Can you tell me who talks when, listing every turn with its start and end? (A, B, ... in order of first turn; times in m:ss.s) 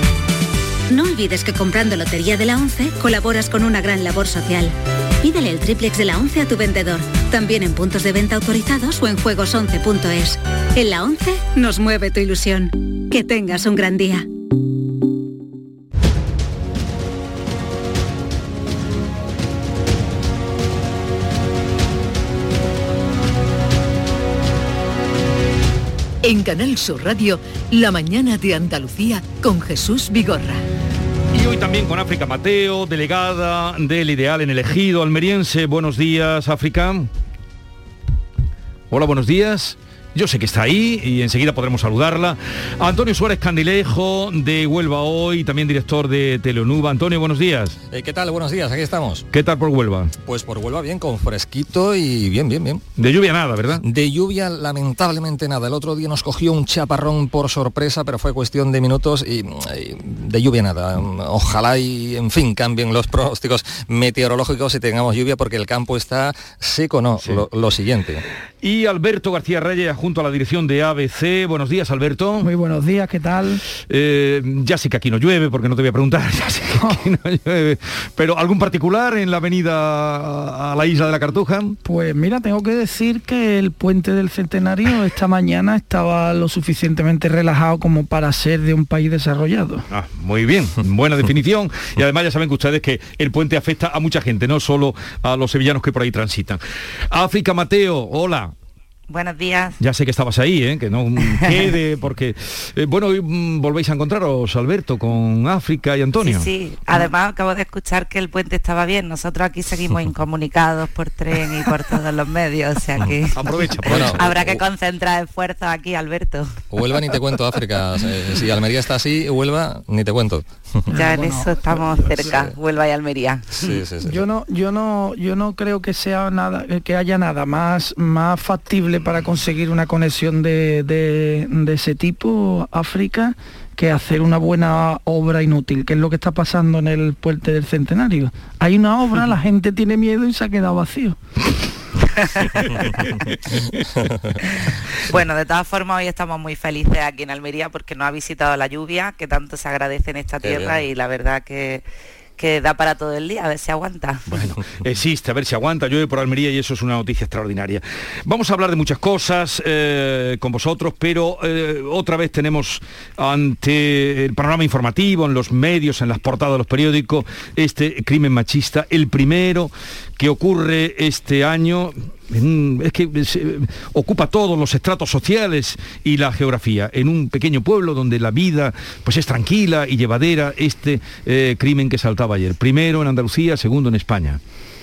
0:00.9-0:14.2 A
0:26.2-0:30.6 B
0:31.3-0:37.1 C
0:38.9-0:47.8 C
0:47.9-0:49.2 D
0:49.3-0:50.1 C
0:50.2-0:52.8 D
0:53.0-0:53.8 C
0:53.8-1:08.2 D
1:08.6-1:12.5 C
1:12.4-1:13.6 E
1:13.9-1:21.8 C
1:21.8-1:29.8 E
1:29.9-1:36.6 C
1:37.1-1:38.5 C
1:39.1-1:39.8 F
1:39.8-1:47.0 C
1:46.2-1:56.5 F
1:53.3-1:54.5 C
1:53.8-1:54.6 D
1:56.7-2:00.5 D
2:00.9-2:02.4 E
2:00.9-2:03.7 F
2:03.6-2:04.2 D
2:04.0-2:21.2 E
2:22.2-2:22.9 F
2:24.6-2:31.8 F
2:30.4-2:30.7 D
2:32.4-2:34.3 F
2:34.3-3:04.4 C